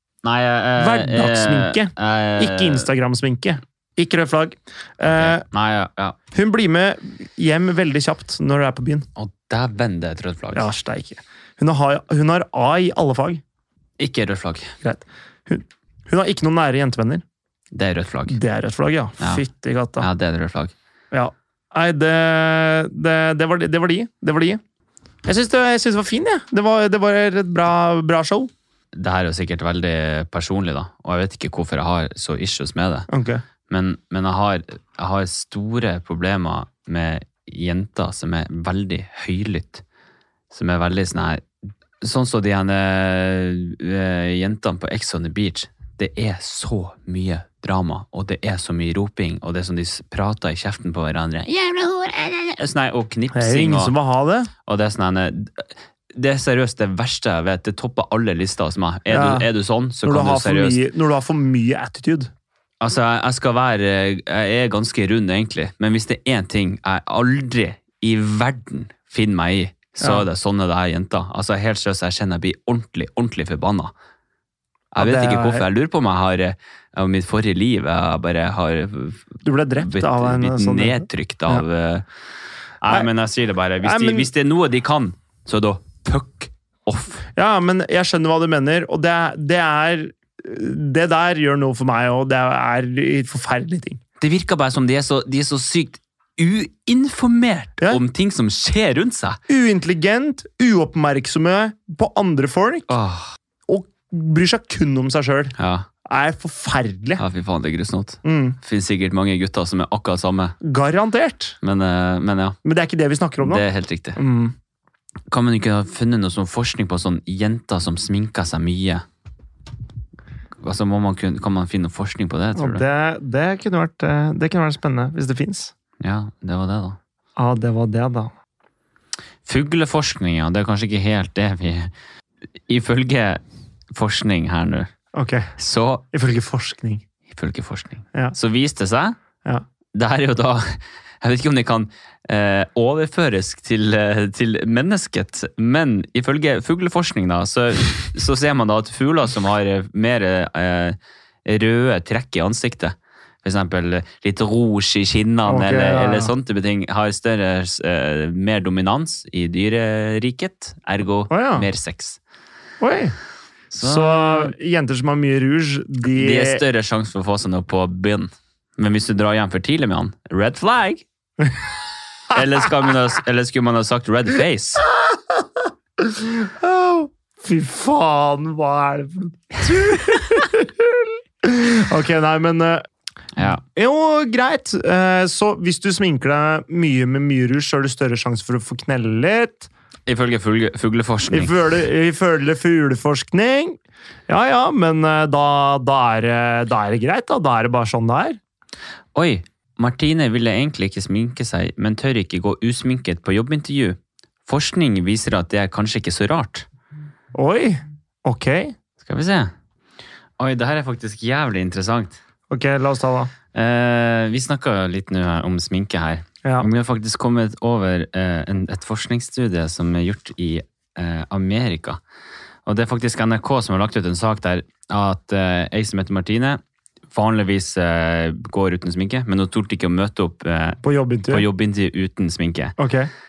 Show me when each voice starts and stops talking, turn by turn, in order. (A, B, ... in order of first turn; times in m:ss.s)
0:00.2-0:02.9 A
0:00.8-0:05.4 B
0:05.0-0:06.2 A
0:06.3-0:09.1 B
0:09.2-0:10.7 A
0:10.5-0:13.4 B
0:14.0-0:14.7 A
0:14.8-0:17.2 B
0:17.7-0:18.4 A
0:18.3-0:20.1 B
0:20.0-0:20.7 A
0:21.1-0:24.6 B
0:25.2-0:28.5 B
0:28.9-0:33.1 A
0:33.1-0:33.4 B
0:33.7-0:39.8 A
0:40.5-0:41.4 A
0:42.0-0:53.9 A
0:53.3-0:54.5 B
0:54.6-1:00.8 A
0:59.1-0:59.5 B
1:00.0-1:02.3 B
1:02.8-1:13.9 A
1:10.0-1:10.2 B
1:14.9-1:22.0 A
1:15.0-1:15.6 B
1:19.4-1:21.6 B
1:22.8-1:27.2 A
1:23.8-1:24.3 B
1:27.4-1:34.0 B
1:34.2-1:39.4 A
1:39.5-1:42.9 B
1:42.9-1:43.3 A
1:43.7-1:47.2 B
1:45.6-1:45.8 A
1:47.2-1:50.6 A
1:48.2-1:48.6 B
1:50.6-1:51.6 B
1:51.6-1:52.6 A
1:52.6-1:53.6 B
1:53.4-1:54.2 A
1:54.2-1:54.5 B
1:55.3-1:59.0 A
2:00.6-2:02.8 A
2:02.6-2:05.7 B
2:06.0-2:07.0 A
2:07.4-2:08.3 B
2:09.4-2:11.9 A
2:12.7-2:13.4 A
2:13.9-2:14.9 A
2:15.1-2:15.5 B
2:15.6-2:16.0 A
2:16.1-2:17.0 B
2:17.3-2:19.2 A
2:19.9-2:42.2 A
2:35.4-2:36.3 B
2:41.3-2:41.7 B
2:42.8-2:43.1 B
2:43.7-2:44.5 A
2:43.8-2:46.6 B
2:46.1-2:51.0 A
2:52.3-2:54.8 A
2:55.0-2:55.4 B
2:56.0-3:02.8 B
3:03.4-3:09.7 B
3:10.1-3:11.5 A
3:11.3-3:18.4 B
3:19.1-3:26.7 A
3:27.3-3:28.7 B
3:29.0-3:29.5 A
3:30.4-3:32.2 A
3:32.5-3:33.3 B
3:33.5-3:42.0 A
3:36.4-3:36.7 B
3:42.6-3:46.6 A
3:47.1-3:52.8 A
3:50.8-3:51.4 B
3:52.8-3:53.1 B